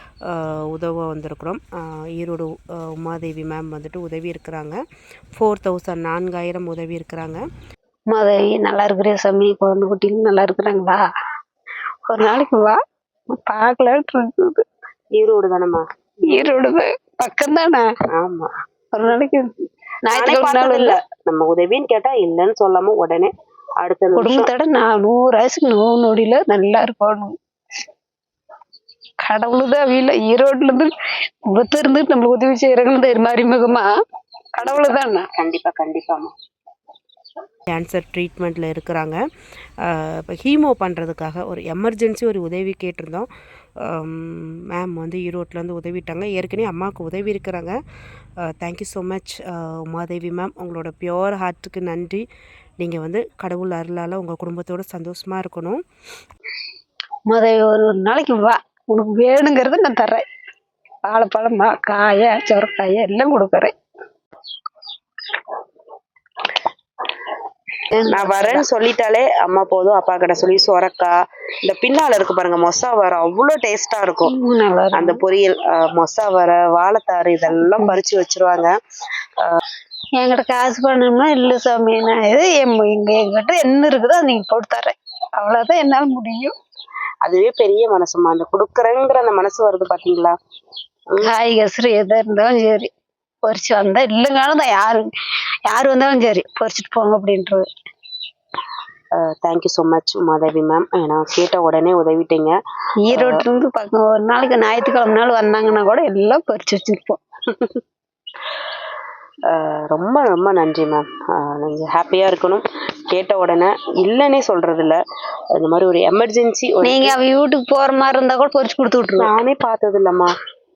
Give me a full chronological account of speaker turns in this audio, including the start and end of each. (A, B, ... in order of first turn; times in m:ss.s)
0:00.3-0:04.8 A
0:05.4-0:07.4 A
0:08.1-0:11.0 B
0:12.1-0:14.6 B
0:15.1-0:16.4 A
0:16.3-0:17.9 B
0:18.1-0:18.5 A
0:18.9-0:19.5 B
0:20.0-0:21.0 B
0:20.1-0:24.5 A
0:24.2-0:27.4 B
0:29.2-0:30.9 B
0:31.5-0:33.9 B
0:34.5-0:35.3 B
0:35.3-0:36.3 A
0:37.7-0:39.2 A
0:39.8-0:43.3 A
0:43.8-0:47.8 A
0:48.5-0:52.2 A
0:52.8-0:55.8 A
0:57.3-1:00.2 B
1:01.0-1:03.7 B
1:07.9-1:08.6 B
1:08.1-1:14.3 A
1:14.2-1:15.2 B
1:14.9-1:18.7 A
1:17.6-1:18.0 B
1:20.2-1:26.5 B
1:27.2-1:30.4 A
1:31.2-1:32.9 B
1:33.4-1:35.0 B
1:35.7-1:37.7 B
1:39.2-1:42.6 A
1:43.1-1:47.2 B
1:43.1-1:43.4 A
1:49.5-1:55.0 A
1:55.6-1:57.2 A
1:56.8-1:59.3 B
1:59.2-2:00.3 A